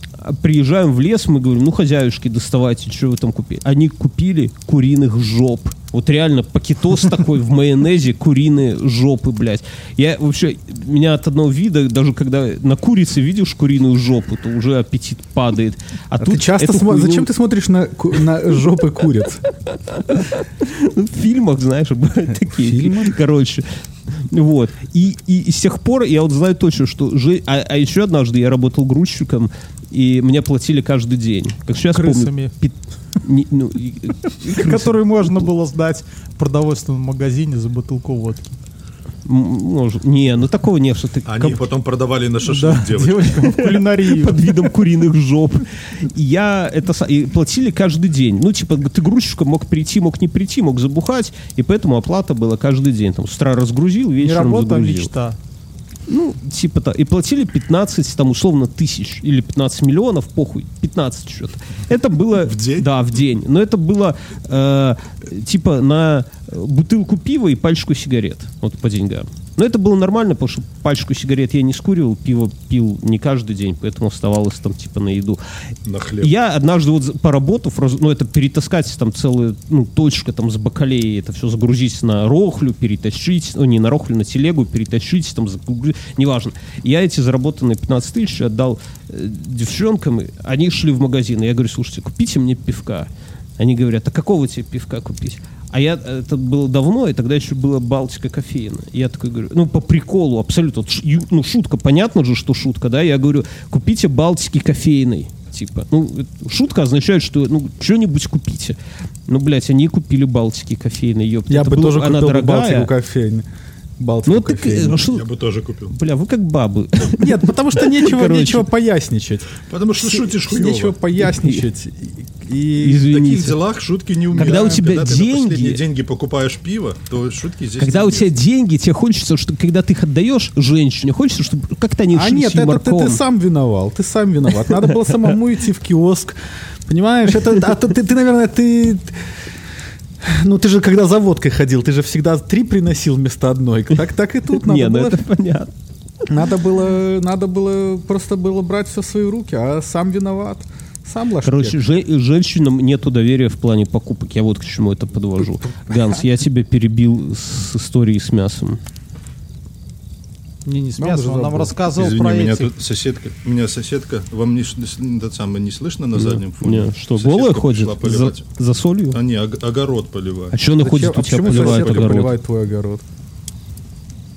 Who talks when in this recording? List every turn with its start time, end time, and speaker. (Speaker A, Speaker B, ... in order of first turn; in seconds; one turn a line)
Speaker A: 0.2-17.3
Speaker B: 16.2-19.4
Speaker A: 19.9-35.5
Speaker B: 22.6-23.1
Speaker C: 31.9-32.5
Speaker C: 34.4-38.6
Speaker A: 39.2-41.6
Speaker D: 41.3-43.5
Speaker C: 42.5-44.7
Speaker A: 43.4-55.1
Speaker C: 54.2-55.4
Speaker A: 56.1-75.4
Speaker D: 62.4-62.9
Speaker D: 75.8-76.3
Speaker A: 76.2-108.8
Speaker A: 109.3-112.9
Speaker B: 111.5-113.5
Speaker B: 114.0-115.0
Speaker A: 114.3-115.2
Speaker D: 115.1-116.0
Speaker A: 115.9-118.7
Speaker B: 117.2-123.2
Speaker D: 119.7-121.0
Speaker A: 121.2-121.7
Speaker A: 122.8-123.6
Speaker D: 123.1-128.3
Speaker A: 124.3-125.8
Speaker B: 124.4-124.8
Speaker A: 127.8-133.2
Speaker B: 132.1-139.2
Speaker B: 140.2-145.2
Speaker A: 144.5-145.7
Speaker B: 146.3-151.8
Speaker A: 151.4-158.8
Speaker C: 160.7-162.7
Speaker B: 161.0-161.8
Speaker D: 161.9-168.5
Speaker A: 166.1-169.2
Speaker D: 169.1-170.6
Speaker A: 170.5-172.3
Speaker B: 170.8-173.0
Speaker D: 171.3-172.2